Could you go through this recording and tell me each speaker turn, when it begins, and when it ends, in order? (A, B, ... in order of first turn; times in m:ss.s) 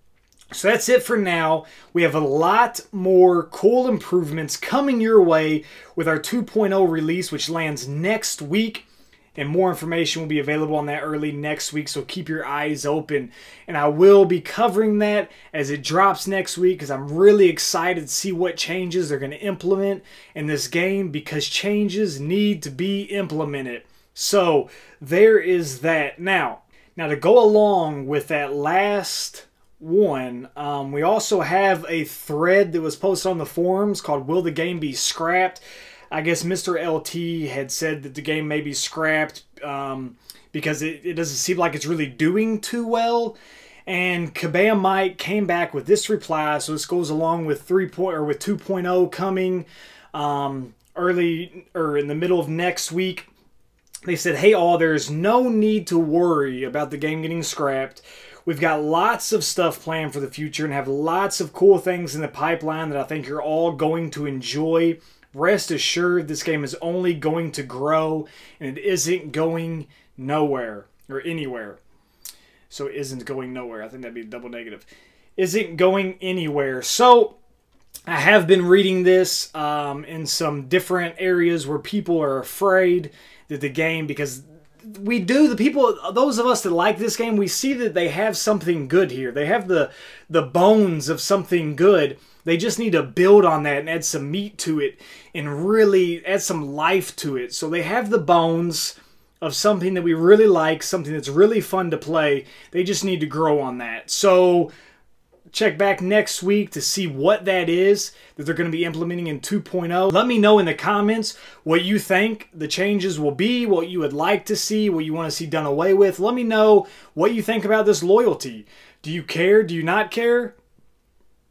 0:00.5-0:53.3 A
0:54.0-1:11.8 A
1:12.7-1:17.4 A
1:18.1-1:44.7 A
1:45.5-2:00.5 A